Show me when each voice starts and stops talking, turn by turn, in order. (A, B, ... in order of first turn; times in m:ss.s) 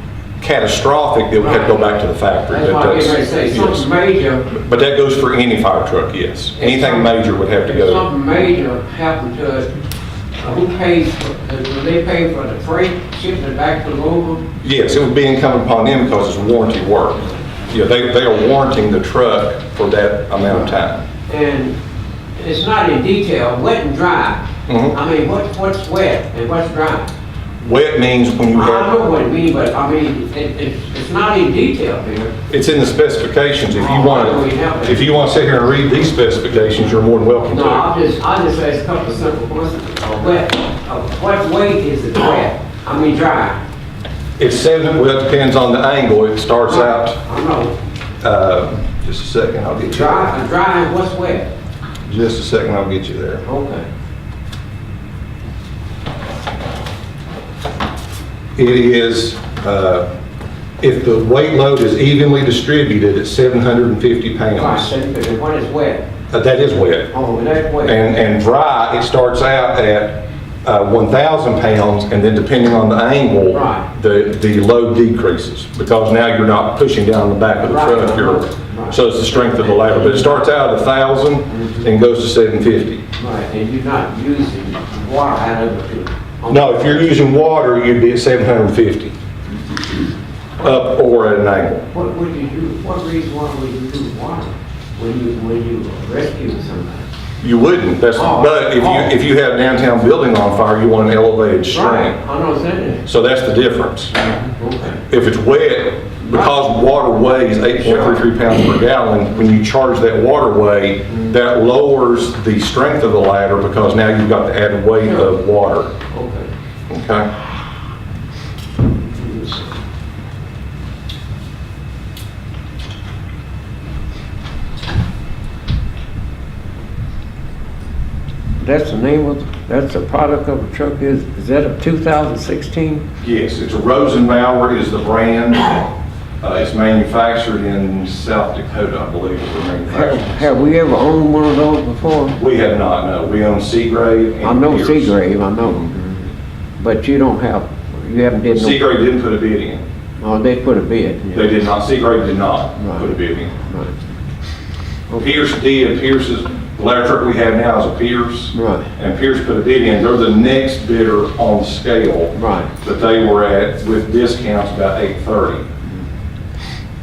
0:00.4-0:03.9 A
0:01.4-0:01.8 B
0:02.5-0:04.5 B
0:04.5-0:08.0 A
0:06.6-0:09.7 B
0:10.4-0:14.4 B
0:14.6-0:21.0 A
0:21.3-0:21.8 B
0:22.4-0:27.1 B
0:24.7-0:24.9 A
0:27.6-0:29.0 A
0:28.5-0:32.3 B
0:32.5-0:37.8 A
0:33.8-0:35.2 B
0:37.5-0:43.6 B
0:44.4-0:47.2 A
0:46.6-0:47.8 B
0:48.2-0:50.3 A
0:49.8-0:51.5 B
0:52.0-0:53.4 A
0:53.4-0:53.9 B
0:58.6-1:00.1 A
1:00.8-1:04.9 A
1:04.5-1:06.0 B
1:06.3-1:07.1 A
1:07.1-1:08.0 B
1:07.8-1:23.0 A
1:13.5-1:13.8 B
1:17.6-1:20.5 B
1:23.2-1:27.1 B
1:26.5-1:29.1 A
1:30.6-1:31.8 A
1:31.9-1:37.1 B
1:37.4-1:42.1 A
1:38.2-1:39.1 B
1:41.7-1:43.0 B
1:43.0-1:44.1 A
1:44.2-1:45.0 B
1:45.1-1:55.9 A
1:47.8-1:48.2 B
1:56.1-1:56.5 B
1:56.9-1:57.3 A
1:59.1-1:59.6 B
2:08.6-2:13.0 B
2:13.2-2:15.9 A
2:16.4-2:20.5 A
2:19.9-2:22.4 B
2:22.4-2:25.1 A
2:24.4-2:26.2 B
2:26.8-2:28.8 B
2:28.5-2:29.8 A
2:30.2-2:31.4 B
2:31.3-2:33.5 A
2:32.8-2:33.0 B
2:33.6-2:33.9 B
2:35.1-2:45.6 A
2:38.5-2:38.9 B
2:42.3-2:42.7 B